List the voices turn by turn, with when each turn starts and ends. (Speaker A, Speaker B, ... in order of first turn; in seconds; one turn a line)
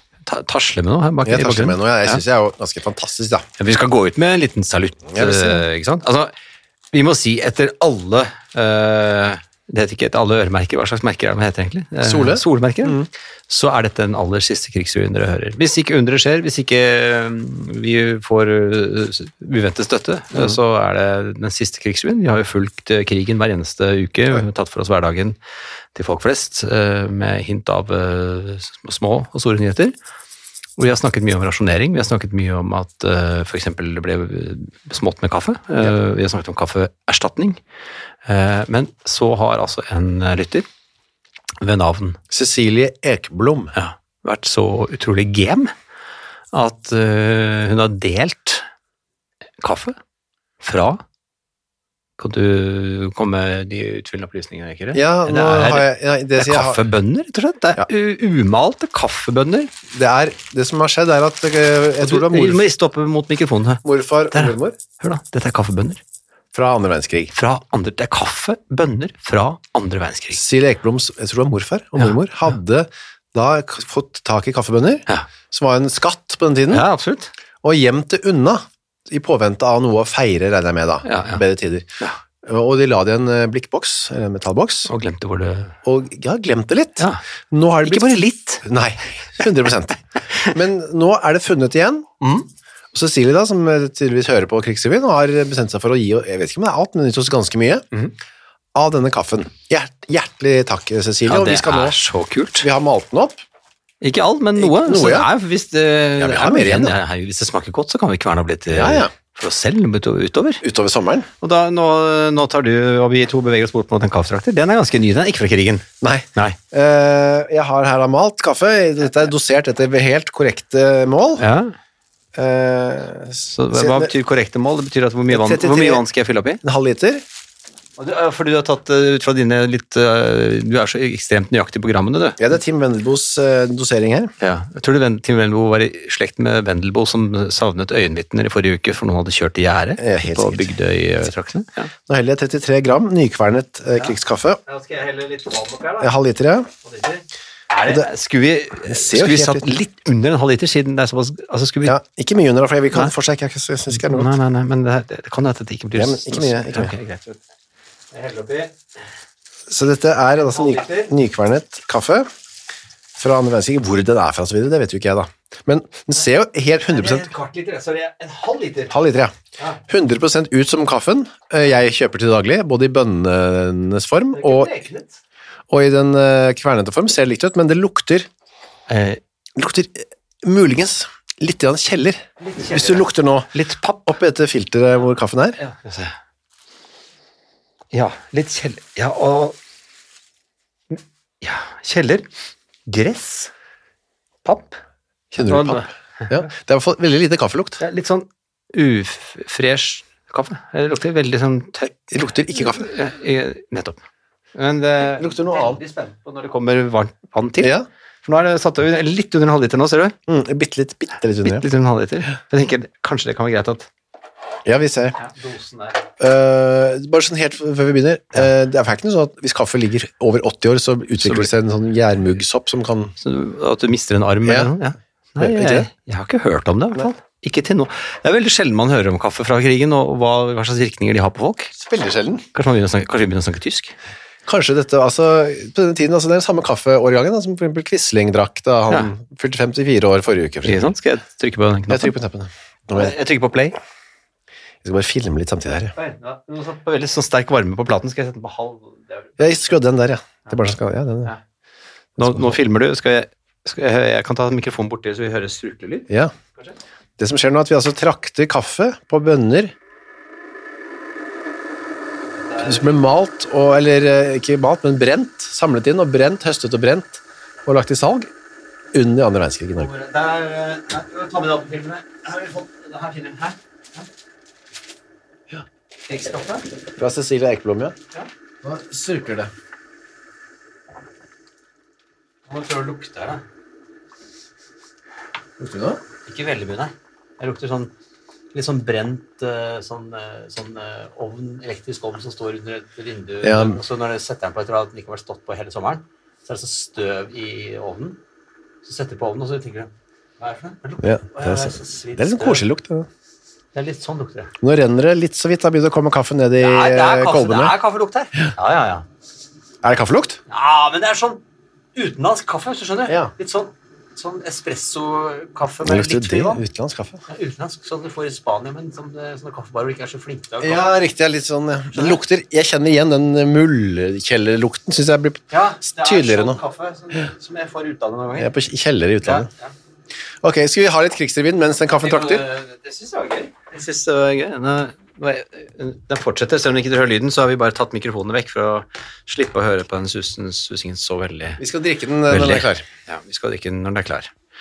Speaker A: 0.2-2.2
Speaker B: 1.2-3.4
Speaker A: 3.6-6.3
Speaker B: 5.1-5.6
Speaker A: 6.9-25.4
Speaker B: 12.0-13.1
Speaker A: 25.9-29.9
Speaker A: 30.8-37.6
Speaker A: 38.2-40.6
Speaker A: 41.6-42.2
Speaker B: 42.3-43.7
Speaker A: 43.7-45.7
Speaker A: 46.5-48.6
Speaker A: 49.6-50.0
Speaker A: 50.6-51.0
Speaker A: 52.2-59.7
Speaker B: 54.9-56.8
Speaker B: 59.9-62.6
Speaker A: 62.0-66.0
Speaker B: 63.8-64.8
Speaker B: 66.5-67.3
Speaker A: 67.3-70.4
Speaker B: 70.3-76.8
Speaker A: 76.7-77.3
Speaker B: 77.6-81.9
Speaker A: 81.0-81.4
Speaker B: 82.4-84.9
Speaker A: 84.8-85.7
Speaker B: 85.8-92.1
Speaker A: 87.8-88.7
Speaker A: 92.2-92.5
Speaker B: 92.9-97.8
Speaker B: 98.7-102.0
Speaker A: 101.2-102.7
Speaker B: 102.6-103.4
Speaker A: 104.0-110.6
Speaker B: 104.6-105.3
Speaker B: 106.2-107.0
Speaker B: 108.7-109.1
Speaker B: 110.6-111.3
Speaker A: 111.4-116.6
Speaker B: 116.0-121.4
Speaker A: 121.4-121.7
Speaker B: 122.3-124.1
Speaker A: 123.5-126.6
Speaker B: 125.3-126.0
Speaker B: 126.6-127.2
Speaker A: 128.0-132.4
Speaker B: 132.4-134.3
Speaker A: 134.4-141.9
Speaker B: 140.0-140.7
Speaker B: 142.1-144.6
Speaker A: 144.7-146.1
Speaker B: 146.0-146.7
Speaker A: 146.8-152.0
Speaker B: 148.8-149.8
Speaker B: 151.8-154.3
Speaker A: 153.9-157.4
Speaker B: 155.9-156.9
Speaker A: 158.1-158.7
Speaker B: 159.7-162.3
Speaker A: 160.4-161.1
Speaker B: 163.2-167.3
Speaker A: 166.9-168.9
Speaker B: 168.9-169.3
Speaker B: 169.8-174.7
Speaker A: 174.3-175.2
Speaker B: 175.7-178.3
Speaker A: 178.9-179.2
Speaker B: 179.6-183.5
Speaker A: 182.4-184.1
Speaker B: 184.1-185.6
Speaker A: 185.6-186.1
Speaker A: 187.9-189.6
Speaker A: 190.9-192.3
Speaker A: 192.8-193.5
Speaker A: 194.4-194.8
Speaker B: 195.3-197.8
Speaker A: 195.4-195.9
Speaker A: 197.8-204.0
Speaker B: 202.1-202.9
Speaker A: 204.5-207.7
Speaker B: 205.2-205.8
Speaker B: 207.6-207.9
Speaker A: 208.2-210.2
Speaker B: 210.3-211.7
Speaker A: 211.4-213.9
Speaker B: 214.6-215.2
Speaker A: 215.2-216.0
Speaker B: 216.2-223.1
Speaker A: 221.2-221.5
Speaker A: 223.2-231.7
Speaker B: 224.4-224.7
Speaker B: 225.4-225.9
Speaker B: 231.7-232.4
Speaker A: 232.5-233.9
Speaker B: 234.5-240.8
Speaker A: 240.6-242.1
Speaker B: 241.9-243.1
Speaker A: 242.9-243.8
Speaker B: 244.8-245.9
Speaker A: 245.9-249.6
Speaker B: 249.4-251.3
Speaker B: 252.2-252.6
Speaker A: 252.2-256.7
Speaker B: 257.2-259.7
Speaker A: 262.4-262.9
Speaker B: 262.6-268.3
Speaker B: 268.9-269.9
Speaker A: 269.8-274.1
Speaker A: 276.1-276.7
Speaker B: 277.0-277.9
Speaker B: 278.6-279.5
Speaker A: 282.5-283.4
Speaker B: 285.6-286.0
Speaker A: 286.2-287.9
Speaker A: 288.5-298.2
Speaker B: 293.4-293.8
Speaker A: 298.8-302.6
Speaker B: 301.0-303.1
Speaker A: 303.7-304.5
Speaker B: 304.6-307.8
Speaker A: 306.6-309.1
Speaker B: 309.8-310.4
Speaker A: 310.5-311.4
Speaker A: 311.9-316.6
Speaker B: 313.1-313.3
Speaker B: 315.8-317.2
Speaker A: 317.3-320.9
Speaker B: 320.6-326.6
Speaker A: 321.9-322.2
Speaker A: 325.5-328.5
Speaker B: 328.4-329.5
Speaker A: 329.2-329.7
Speaker B: 330.4-332.4
Speaker A: 332.0-341.6
Speaker B: 341.6-342.8
Speaker A: 342.3-344.3